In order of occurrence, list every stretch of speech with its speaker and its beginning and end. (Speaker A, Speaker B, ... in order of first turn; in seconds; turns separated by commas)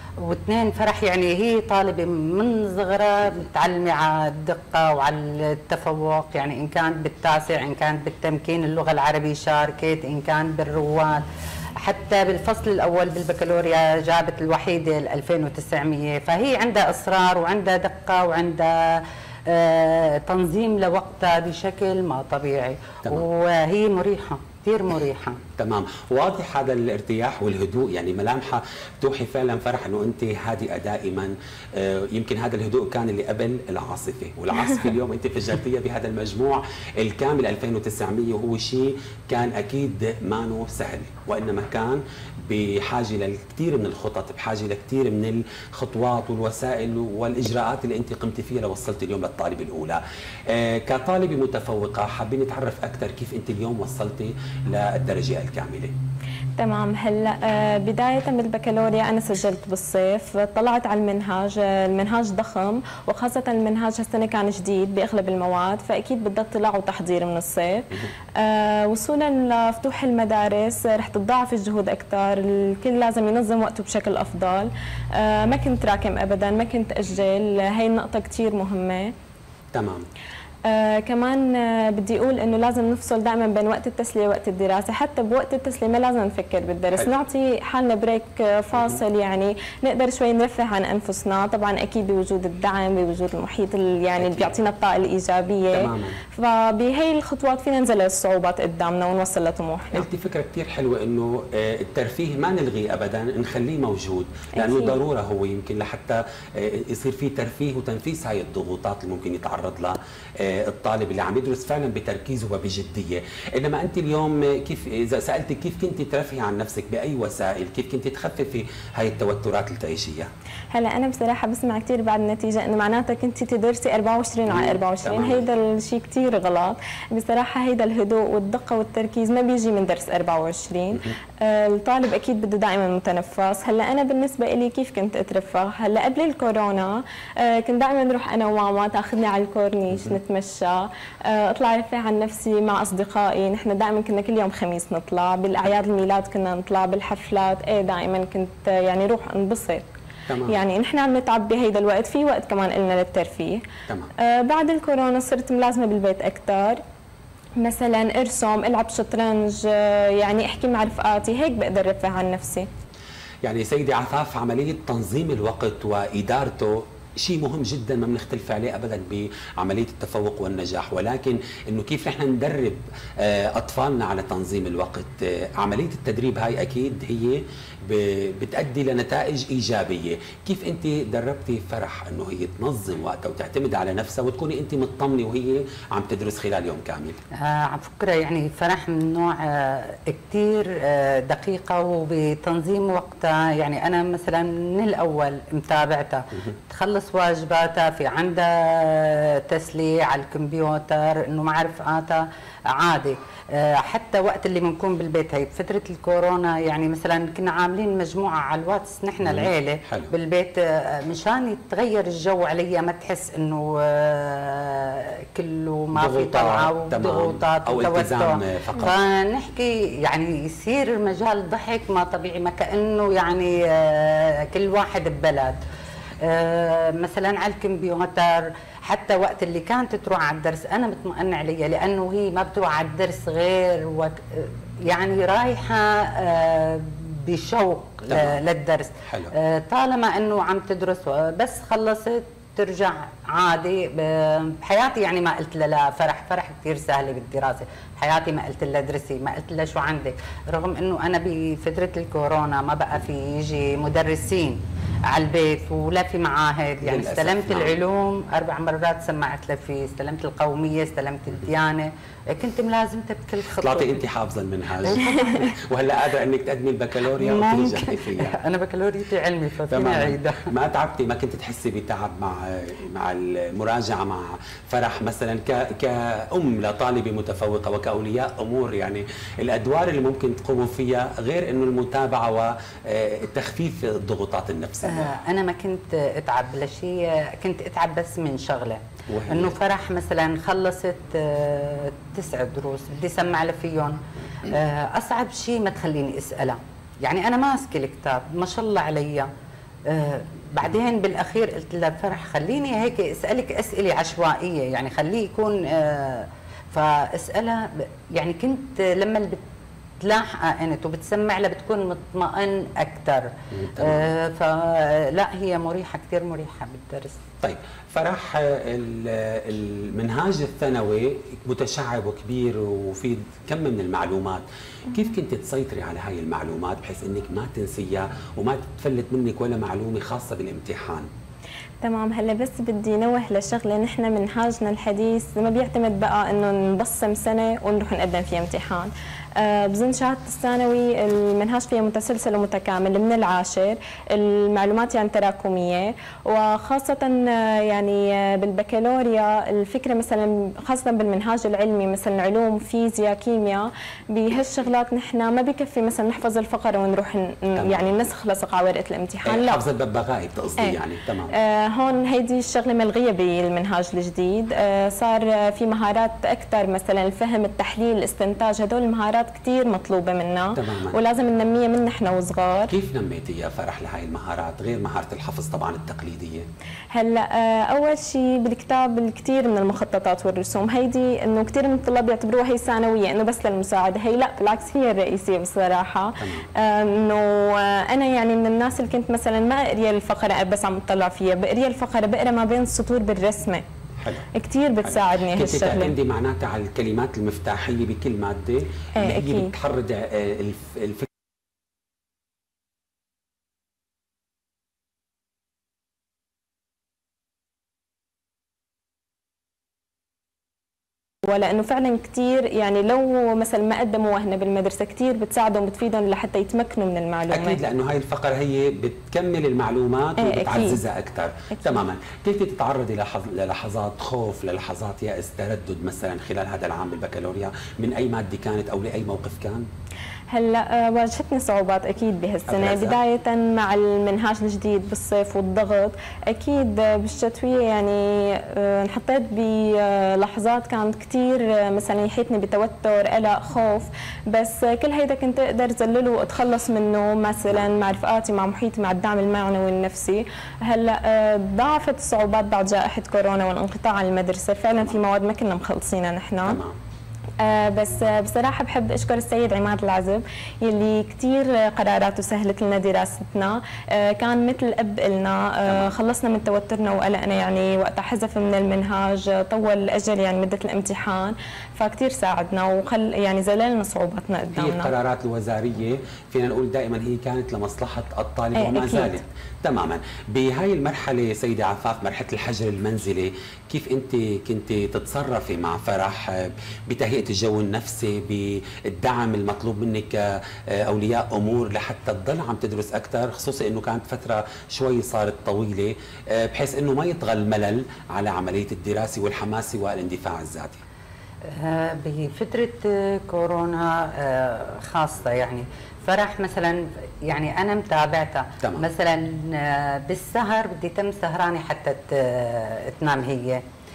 Speaker A: 0.2-11.3, Speaker A: 11.8-25.4, Speaker B: 25.6-56.0, Speaker C: 56.6-79.1, Speaker B: 79.7-80.1, Speaker C: 80.7-100.1, Speaker B: 94.2-94.5, Speaker B: 95.7-96.2, Speaker B: 99.9-120.3, Speaker C: 104.6-105.0, Speaker C: 120.7-149.9, Speaker B: 124.5-125.5, Speaker B: 139.9-140.2, Speaker B: 150.3-150.6, Speaker C: 150.5-153.7, Speaker C: 154.2-156.8, Speaker C: 157.6-162.7, Speaker B: 163.4-187.2, Speaker A: 187.4-225.6, Speaker B: 209.2-210.1, Speaker B: 215.9-219.0, Speaker A: 226.2-264.0, Speaker B: 238.1-238.4, Speaker B: 239.1-239.3, Speaker B: 256.8-257.8, Speaker B: 263.6-268.4, Speaker A: 264.9-265.6, Speaker A: 267.1-270.5, Speaker B: 269.7-285.1, Speaker A: 284.9-299.3, Speaker B: 289.1-289.6, Speaker A: 299.9-309.4, Speaker A: 310.0-317.2, Speaker B: 313.5-314.1, Speaker B: 317.4-331.1, Speaker C: 331.8-359.6, Speaker B: 357.6-357.9, Speaker B: 359.2-361.3, Speaker C: 361.3-372.7, Speaker B: 370.6-371.0, Speaker B: 372.7-376.5, Speaker C: 376.9-393.7, Speaker B: 386.2-386.5, Speaker B: 394.0-394.3, Speaker C: 394.3-395.9, Speaker B: 394.9-401.1, Speaker C: 399.0-399.5, Speaker C: 411.2-417.6, Speaker B: 417.3-429.7, Speaker C: 420.2-420.8, Speaker C: 421.5-421.8, Speaker C: 430.3-456.6, Speaker B: 432.5-433.0, Speaker B: 456.4-456.8, Speaker C: 457.4-474.9, Speaker B: 465.7-465.9, Speaker B: 474.6-500.8, Speaker C: 478.6-479.2, Speaker A: 501.4-513.6, Speaker B: 508.6-508.9